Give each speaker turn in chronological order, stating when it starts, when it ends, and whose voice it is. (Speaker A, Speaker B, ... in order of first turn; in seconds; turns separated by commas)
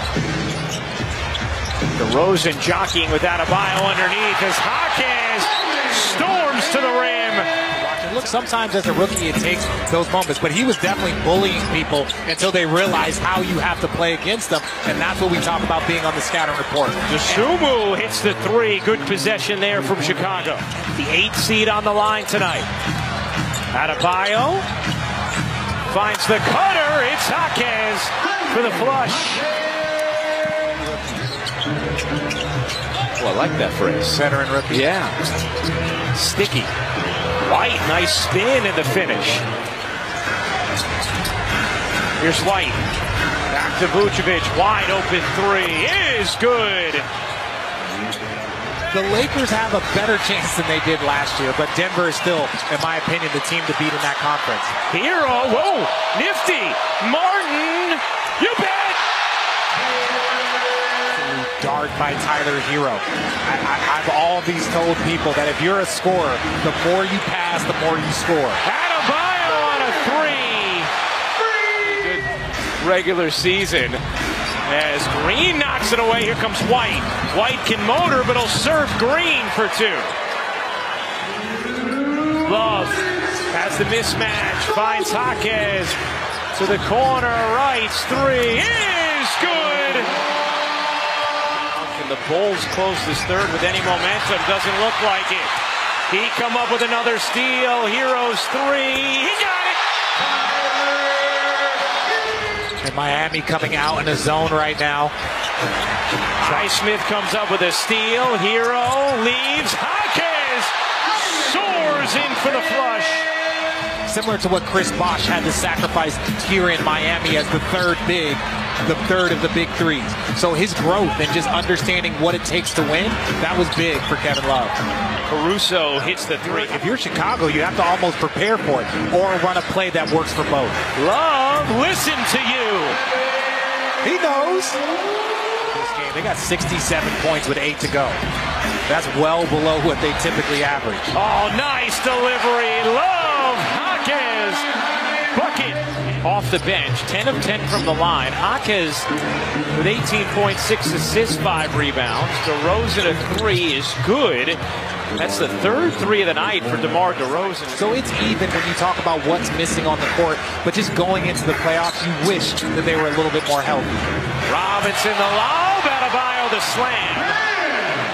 Speaker A: 1.9-7.5, Speaker B: 7.7-17.2, Speaker A: 17.1-22.7, Speaker A: 23.7-24.7, Speaker A: 25.9-29.5, Speaker A: 33.1-35.2, Speaker B: 34.1-34.9, Speaker A: 36.1-36.7, Speaker A: 37.4-39.5, Speaker A: 42.2-42.8, Speaker A: 43.5-47.1, Speaker B: 48.9-54.7, Speaker A: 54.9-59.0, Speaker B: 61.1-68.6, Speaker A: 68.6-70.9, Speaker A: 71.8-72.2, Speaker A: 72.8-74.0, Speaker A: 74.6-80.1, Speaker A: 82.4-86.0, Speaker A: 86.5-90.1, Speaker A: 91.5-95.5, Speaker A: 96.1-99.8, Speaker B: 102.8-105.1, Speaker A: 106.4-113.3, Speaker B: 106.4-106.7, Speaker B: 114.1-124.8, Speaker A: 125.3-126.8, Speaker B: 126.0-130.8, Speaker A: 131.0-133.0, Speaker B: 134.0-134.8, Speaker B: 135.6-138.2, Speaker B: 138.9-141.2, Speaker A: 141.1-144.7, Speaker A: 145.3-149.1, Speaker A: 149.7-154.6, Speaker A: 155.2-158.0, Speaker B: 157.7-163.9, Speaker A: 164.5-167.4